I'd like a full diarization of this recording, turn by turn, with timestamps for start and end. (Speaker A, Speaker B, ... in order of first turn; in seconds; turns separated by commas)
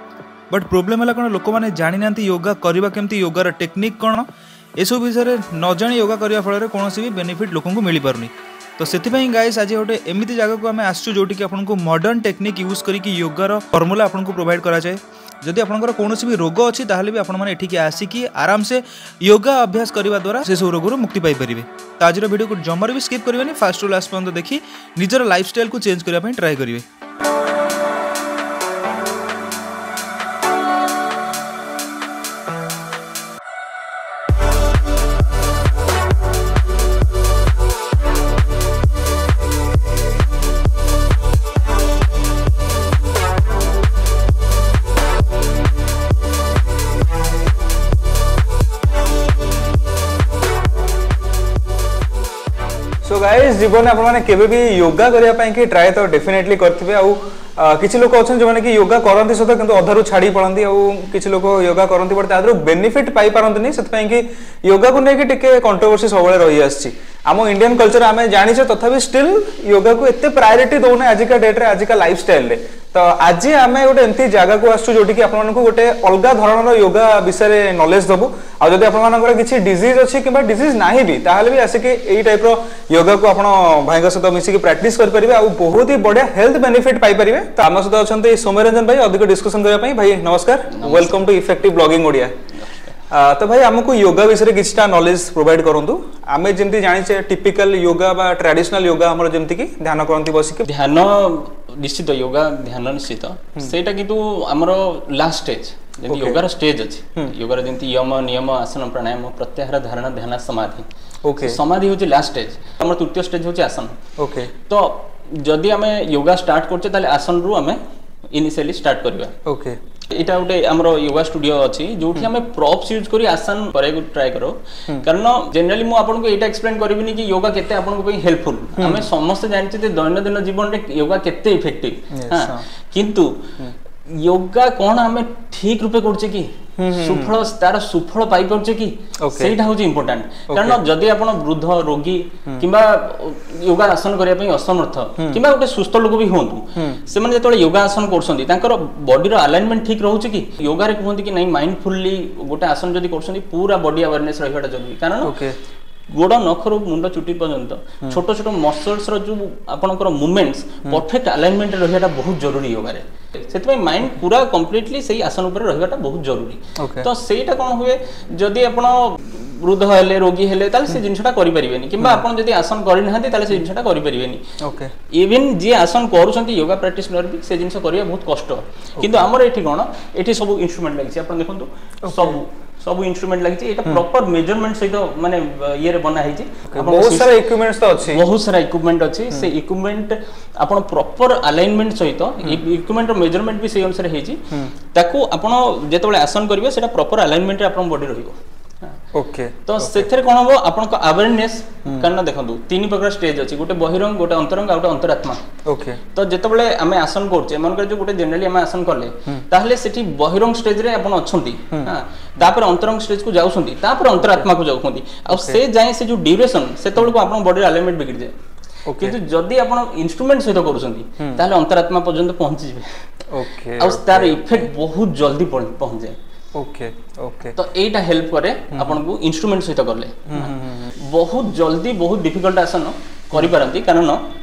Speaker A: 0.5-4.2, Speaker A: 4.8-26.8, Speaker B: 53.0-92.3, Speaker C: 90.7-91.2, Speaker C: 92.6-93.0, Speaker B: 93.1-100.7, Speaker C: 100.7-110.9, Speaker B: 106.1-106.4, Speaker B: 111.2-111.6, Speaker C: 111.4-113.9, Speaker B: 114.2-114.5, Speaker C: 114.6-117.8, Speaker C: 118.3-119.3, Speaker B: 119.5-119.8, Speaker C: 120.1-133.3, Speaker B: 128.8-129.1, Speaker B: 132.1-132.6, Speaker C: 134.1-155.3, Speaker B: 136.8-137.3, Speaker B: 139.2-139.6, Speaker B: 140.5-140.8, Speaker B: 145.2-145.4, Speaker B: 146.8-147.0, Speaker B: 155.2-155.6, Speaker C: 156.1-174.4, Speaker B: 166.8-167.1, Speaker B: 174.6-174.9, Speaker C: 175.1-198.3, Speaker B: 179.0-179.3, Speaker B: 182.0-182.4, Speaker B: 186.7-188.2, Speaker B: 199.1-200.1, Speaker C: 199.7-205.4, Speaker B: 205.7-206.0, Speaker C: 206.1-218.3, Speaker B: 214.2-214.4, Speaker B: 215.3-215.6, Speaker B: 218.9-219.2, Speaker C: 219.0-222.9, Speaker B: 223.3-224.7, Speaker C: 223.8-226.2, Speaker B: 226.5-227.6, Speaker C: 227.5-234.2, Speaker B: 228.7-229.0, Speaker B: 230.3-230.9